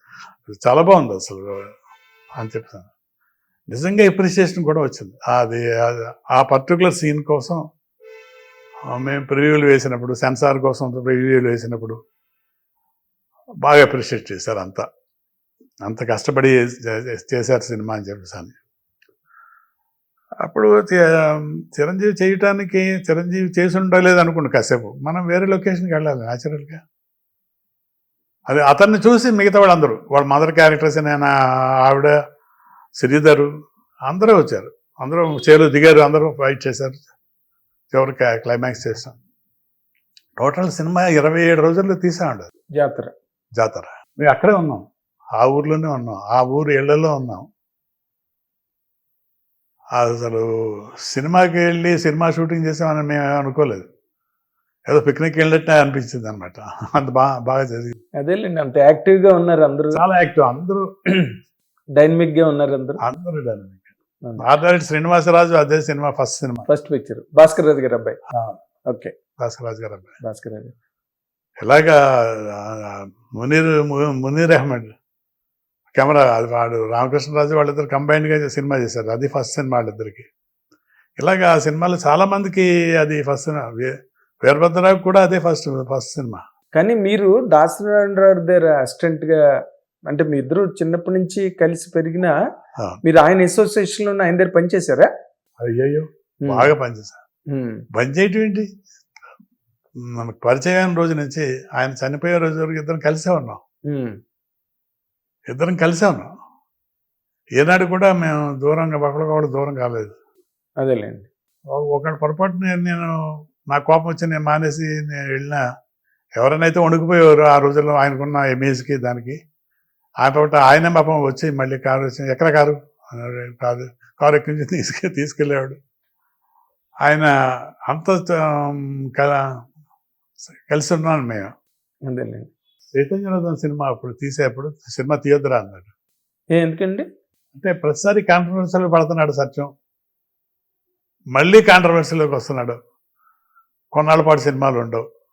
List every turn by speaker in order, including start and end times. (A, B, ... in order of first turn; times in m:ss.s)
0:00.5-0:01.6 A
0:02.4-0:02.9 A
0:03.7-0:07.6 A
0:08.9-0:12.0 A
0:13.6-0:14.8 A
0:15.8-0:18.6 A
0:20.4-0:26.8 A
0:28.5-0:31.3 A
0:31.8-0:32.1 A
0:33.0-0:33.5 A
0:34.1-0:37.0 A
0:37.9-0:39.2 A
0:40.4-0:42.5 A
0:42.7-0:43.1 B
0:43.6-0:44.8 A
0:45.4-0:47.4 A
0:50.0-0:50.5 A
0:51.0-0:53.9 A
0:54.9-0:58.0 A
0:58.2-1:00.0 B
0:59.9-1:00.9 A
1:02.0-1:03.0 B
1:03.0-1:03.8 A
1:04.4-1:06.7 A
1:06.7-1:08.2 B
1:08.3-1:08.6 A
1:09.4-1:10.2 A
1:10.2-1:10.7 B
1:11.6-1:14.9 A
1:15.9-1:20.2 A
1:21.2-1:23.9 A
1:24.4-1:26.4 A
1:26.8-1:29.4 B
1:30.1-1:32.3 B
1:33.0-1:35.1 B
1:35.6-1:37.2 A
1:37.5-1:37.8 B
1:37.9-1:38.7 A
1:40.0-1:43.6 A
1:45.5-1:46.3 A
1:47.6-1:50.1 A
1:50.8-1:51.3 B
1:51.7-1:53.1 A
1:53.7-1:55.6 A
1:56.4-1:59.4 A
2:00.2-2:05.8 A
2:07.0-2:07.3 A
2:07.9-2:09.4 A
2:10.5-2:11.5 A
2:12.1-2:12.5 B
2:12.9-2:15.9 A
2:16.6-2:17.0 B
2:17.6-2:19.7 A
2:21.3-2:22.8 A
2:23.9-2:25.0 A